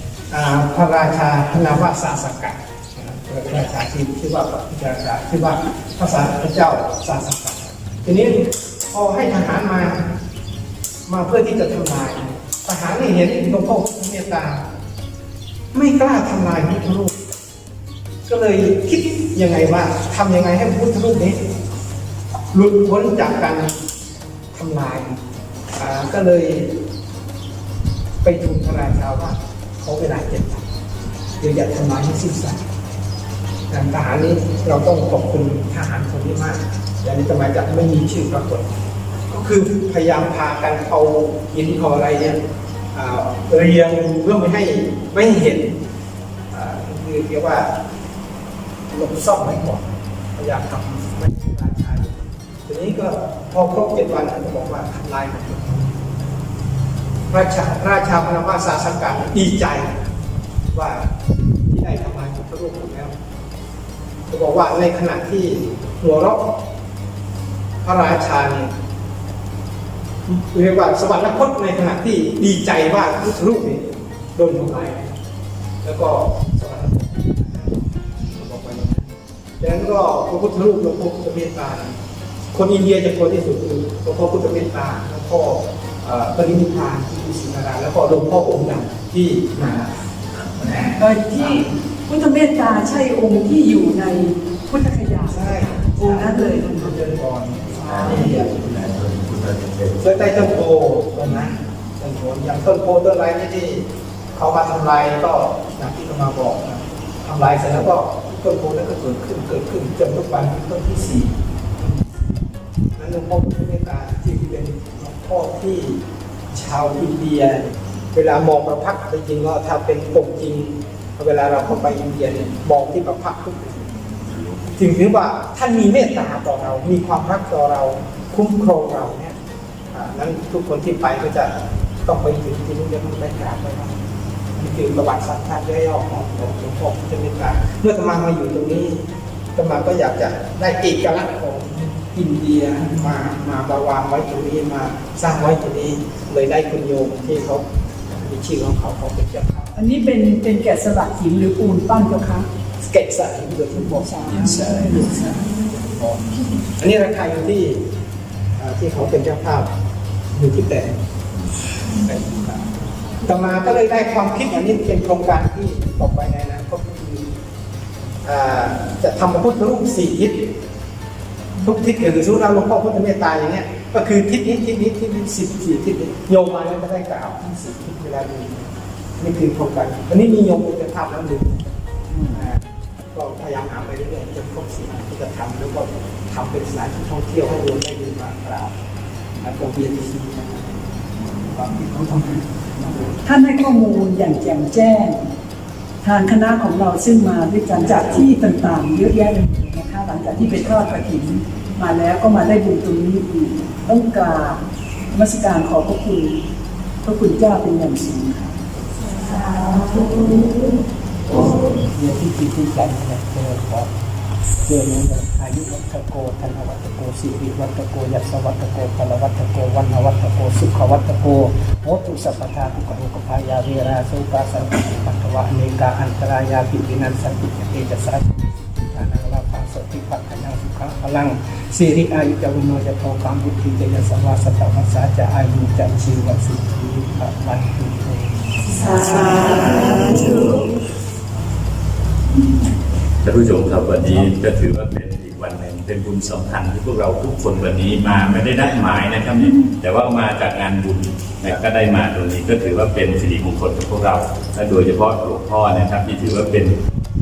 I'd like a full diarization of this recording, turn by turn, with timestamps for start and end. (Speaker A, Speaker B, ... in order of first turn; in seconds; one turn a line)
Speaker A: 0.3-10.1
Speaker A: 11.1-14.6
Speaker A: 15.7-17.1
Speaker A: 18.2-21.4
Speaker A: 22.5-23.8
Speaker A: 24.5-25.2
Speaker A: 25.8-26.8
Speaker A: 28.2-30.6
Speaker A: 31.4-32.6
Speaker A: 33.7-38.7
Speaker A: 39.3-42.4
Speaker A: 42.9-45.8
Speaker A: 46.5-47.7
Speaker A: 48.9-52.1
Speaker A: 52.7-56.0
Speaker A: 57.3-60.0
Speaker A: 60.7-63.1
Speaker A: 64.3-66.5
Speaker A: 67.8-68.7
Speaker A: 70.3-75.2
Speaker A: 75.8-82.0
Speaker A: 82.5-89.9
Speaker A: 90.5-91.7
Speaker B: 91.0-97.0
Speaker A: 95.3-98.5
Speaker B: 97.8-98.2
Speaker C: 97.9-100.0
Speaker A: 100.0-112.3
Speaker A: 113.0-124.0
Speaker A: 124.7-129.4
Speaker A: 129.9-131.5
Speaker A: 132.0-133.9
Speaker A: 134.5-149.7
Speaker B: 149.8-152.5
Speaker A: 152.8-157.9
Speaker B: 154.0-155.2
Speaker A: 158.6-159.7
Speaker A: 160.3-161.0
Speaker A: 162.0-162.7
Speaker A: 163.2-167.3
Speaker A: 168.2-170.5
Speaker A: 171.6-181.7
Speaker B: 182.1-182.4
Speaker A: 182.3-188.8
Speaker A: 189.4-193.2
Speaker B: 193.2-195.3
Speaker B: 196.0-206.4
Speaker B: 207.0-208.5
Speaker A: 209.8-210.5
Speaker A: 211.3-213.9
Speaker A: 214.6-239.8
Speaker B: 238.8-240.2
Speaker C: 239.9-240.3
Speaker C: 243.2-256.8